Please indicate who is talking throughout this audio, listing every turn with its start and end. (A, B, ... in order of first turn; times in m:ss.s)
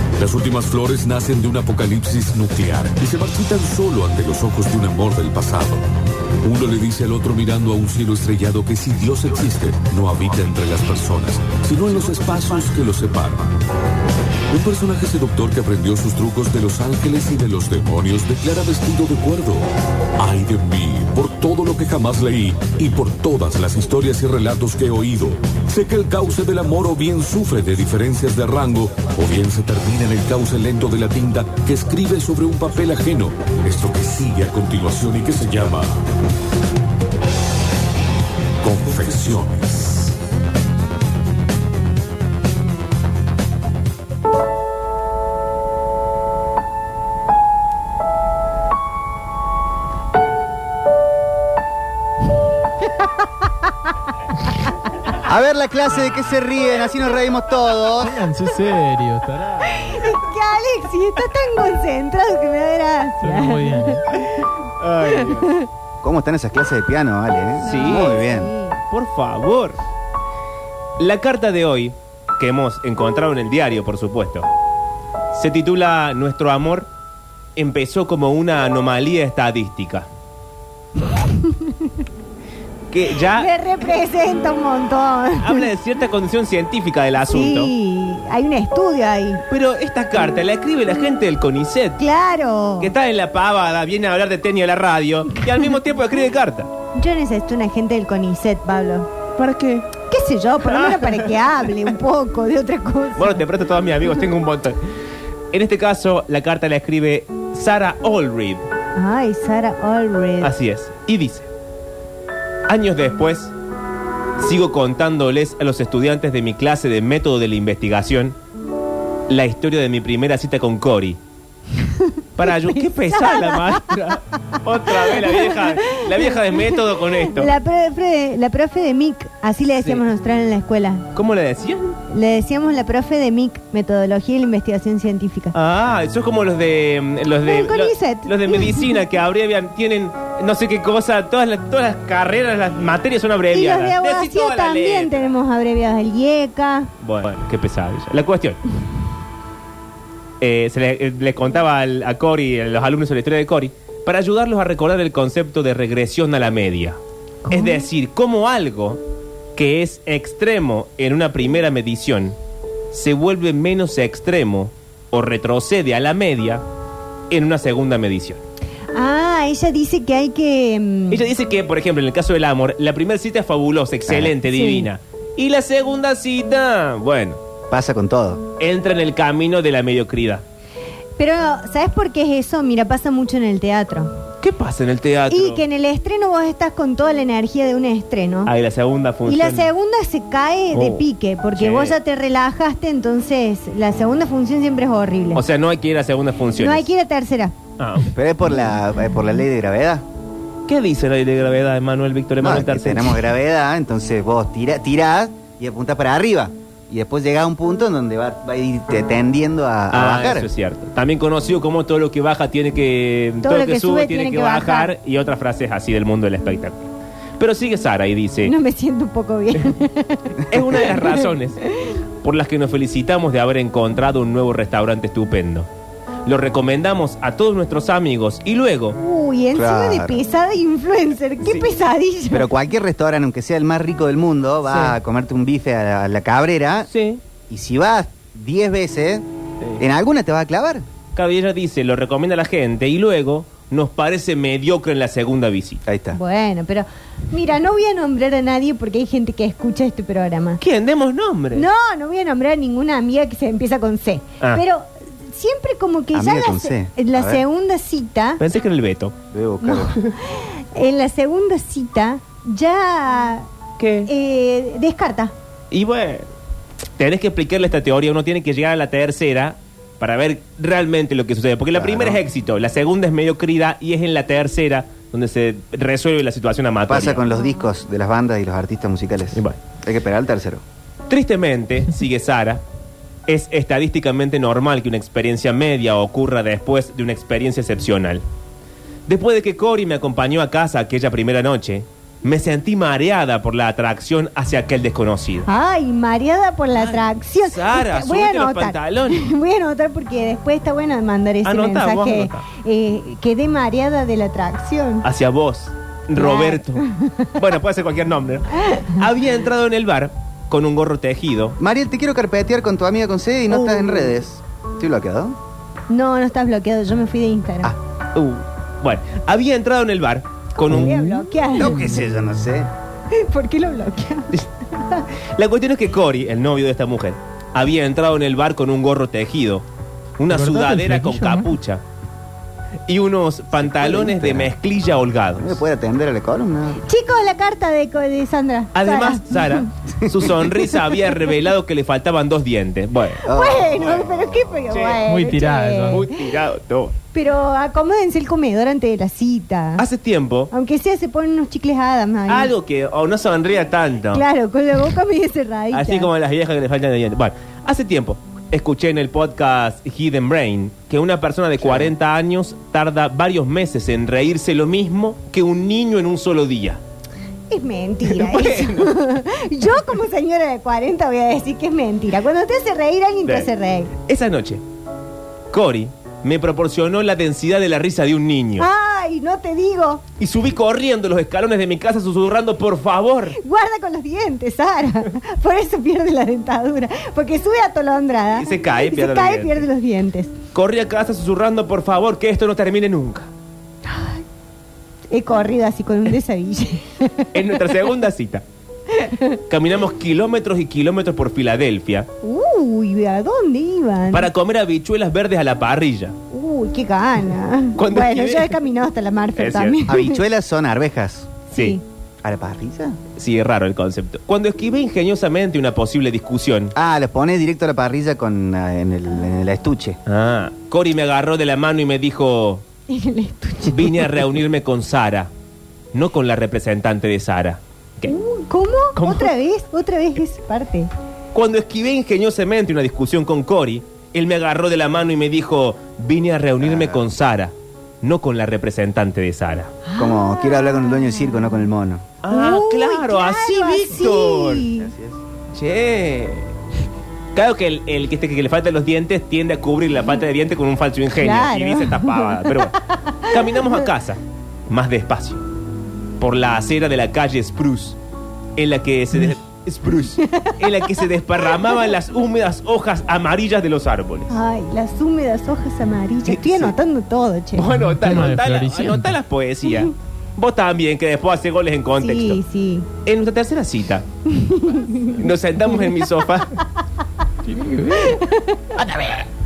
0:00.2-0:05.8 A
0:06.4-0:13.5 A
0:14.5-0:19.7 A
0:20.2-0:36.0 A
0:38.6-0:40.1 A
0:52.9-0:53.5 B
0:55.2-0:58.2 C
0:58.0-0:59.9 D
0:59.7-1:04.0 B
1:03.2-1:03.9 D
1:04.1-1:05.5 E
1:05.2-1:05.7 B
1:06.0-1:08.5 C
1:07.6-1:08.2 E
1:07.6-1:08.8 B
1:08.9-1:09.8 E
1:11.0-1:14.5 E
1:15.3-1:16.9 E
1:17.6-1:20.1 E
1:21.3-1:21.9 B
1:22.9-1:23.5 E
1:23.2-1:25.6 B
1:25.4-1:27.7 E
1:27.3-1:29.4 B
1:29.5-1:32.0 E
1:32.0-1:32.9 B
1:32.8-1:36.7 E
1:36.9-1:39.1 B
1:39.4-1:39.9 E
1:40.1-1:43.4 B
1:40.6-1:41.6 E
1:43.2-1:44.8 E
1:45.5-1:48.7 E
1:48.9-1:50.5 B
1:50.4-1:51.5 E
1:52.7-1:53.5 E
1:54.4-1:58.4 E
1:59.3-2:01.2 E
2:01.8-2:02.1 B
2:02.4-2:07.5 E
2:03.1-2:03.7 B
2:05.1-2:11.1 B
2:11.1-2:12.0 E
2:12.1-2:15.5 B
2:15.5-2:25.3 E
2:17.4-2:18.9 B
2:23.5-2:26.9 B
2:27.0-2:28.6 E
2:30.4-2:39.0 E
2:37.5-2:37.8 B
2:39.5-2:42.4 E
2:42.9-2:46.6 E
2:47.3-2:48.4 E
2:48.9-2:51.3 B
2:51.1-2:57.4 E
2:54.1-2:54.3 C
2:54.4-2:54.9 B
2:57.7-2:58.4 C
2:58.6-3:00.4 E
3:01.2-3:04.2 B
3:04.4-3:05.6 E
3:05.3-3:08.5 B
3:08.4-3:09.7 E
3:09.2-3:15.4 B
3:10.7-3:12.0 E
3:15.3-3:16.9 E
3:16.6-3:17.5 B
3:17.8-3:18.1 E
3:18.1-3:20.0 C
3:20.7-3:23.2 E
3:22.4-3:30.5 C
3:29.9-3:36.8 E
3:33.4-3:34.9 B
3:37.4-3:38.5 E
3:38.4-3:41.2 B
3:40.5-3:41.6 E
3:42.2-3:45.7 E
3:46.2-3:49.0 E
3:48.9-3:52.5 B
3:49.5-3:50.2 C
3:52.3-3:56.9 C
3:54.7-3:55.0 E
3:56.9-3:57.2 E
3:57.5-3:59.2 C
3:59.8-4:00.8 C
4:01.1-4:05.8 E
4:05.8-4:06.2 C
4:06.1-4:10.6 B
4:10.6-4:11.6 E
4:11.5-4:18.4 B
4:16.1-4:17.4 C
4:18.4-4:19.1 E
4:19.3-4:20.0 C
4:19.6-4:23.5 B
4:19.7-4:20.1 E
4:23.8-4:24.1 E
4:24.0-4:25.3 B
4:25.7-4:26.3 E
4:27.0-4:37.3 E
4:31.7-4:32.2 C
4:36.9-4:40.6 C
4:41.1-4:42.6 E
4:43.3-4:48.2 E
4:49.1-4:55.5 E
4:55.4-5:05.0 B
4:56.8-4:59.3 E
5:01.4-5:02.5 E
5:05.0-5:11.6 E
5:06.1-5:07.3 B
5:11.6-5:15.4 C
5:13.5-5:14.1 B
5:15.9-5:17.7 B
5:18.1-5:21.3 E
5:20.6-5:21.9 B
5:21.6-5:22.7 C
5:23.1-5:25.0 B
5:25.4-5:29.6 E
5:30.2-5:31.8 E
5:30.3-5:31.5 D
5:32.9-5:35.6 E
5:33.6-5:34.5 C
5:35.4-5:36.8 C
5:36.8-5:39.6 B
5:38.7-5:43.2 E
5:43.2-5:46.1 B
5:43.2-5:44.7 C
5:44.7-5:45.0 E
5:45.0-5:46.0 D
5:45.9-5:46.9 E
5:47.1-5:49.8 B
5:49.8-5:50.5 E
5:50.5-5:52.5 B
5:52.3-5:54.2 E
5:54.1-5:56.1 B
5:55.7-6:06.8 E
6:07.5-6:13.9 B
6:08.0-6:09.0 E
6:14.1-6:14.6 E
6:15.5-6:18.7 E
6:18.6-6:20.0 B
6:20.2-6:23.4 E
6:23.4-6:30.3 B
6:28.3-6:29.6 E
6:30.5-6:33.3 E
6:33.8-6:34.2 B
6:35.1-6:37.4 B
6:37.3-6:38.4 E
6:38.9-6:39.4 B
6:39.5-6:42.1 E
6:42.2-6:44.3 B
6:44.1-6:46.2 E
6:46.3-6:50.2 B
6:47.8-6:48.6 E
6:49.4-6:49.8 E
6:49.9-6:51.3 C
6:51.5-6:51.8 B
6:51.5-6:51.8 E
6:52.2-6:53.0 C
6:53.2-6:56.7 E
6:56.7-7:00.0 C
7:00.0-7:02.6 E
7:02.9-7:04.1 B
7:03.7-7:05.3 E
7:05.9-7:08.1 E
7:08.0-7:10.9 B
7:09.0-7:09.3 E
7:11.3-7:19.7 E
7:16.6-7:17.0 C
7:19.8-7:21.1 B
7:20.0-7:22.0 C
7:22.2-7:24.7 E
7:22.3-7:24.9 B
7:24.8-7:25.2 C
7:25.5-7:26.5 E
7:27.3-7:35.4 E
7:31.2-7:33.4 B
7:36.2-7:38.0 E
7:38.6-7:44.4 E
7:40.3-7:40.5 B
7:44.3-7:47.7 B
7:46.2-7:46.7 E
7:47.5-7:52.4 E
7:47.7-7:48.0 A
7:47.9-7:49.1 D
7:52.0-7:52.9 B
7:53.0-7:54.0 E
7:54.3-7:55.1 B
7:55.0-7:56.6 E
7:57.4-7:58.1 D
7:57.9-7:58.8 B
7:58.8-7:59.2 E